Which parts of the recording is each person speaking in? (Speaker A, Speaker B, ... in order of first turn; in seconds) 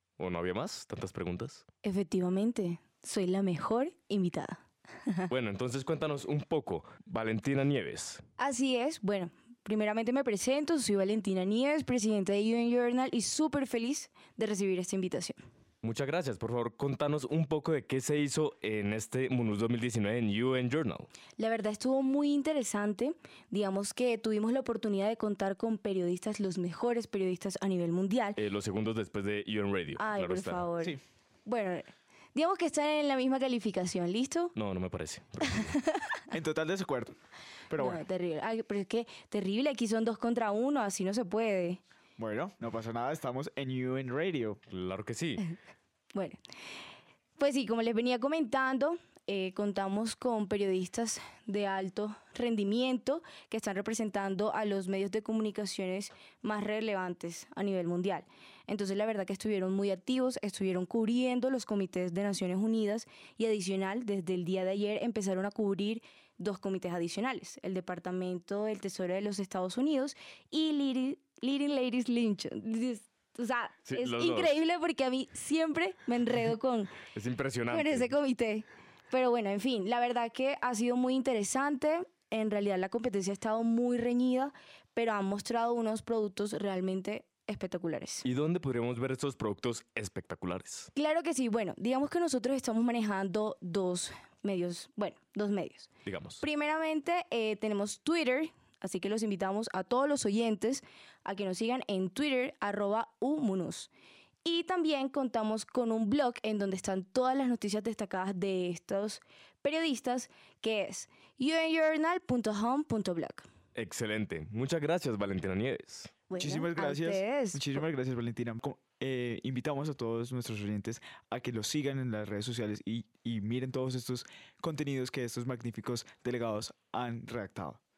Speaker A: 0.2-1.6, 5.3-8.2, 15.8-21.1, 28.4-30.7, 34.5-35.8, 44.7-45.5, 73.9-74.6, 77.1-78.1, 88.2-90.9, 96.0-96.5, 113.8-116.1
Speaker B: 1.8-5.3, 8.4-15.4, 21.4-28.4, 30.0-34.5, 35.6-36.1, 37.8-41.8, 46.1-46.4, 47.4-77.0, 77.7-88.2, 91.0-95.9, 96.4-103.9, 104.5-113.5, 116.3-117.8
Speaker C: 36.3-37.1, 37.7-38.0, 42.2-44.6, 116.4-127.8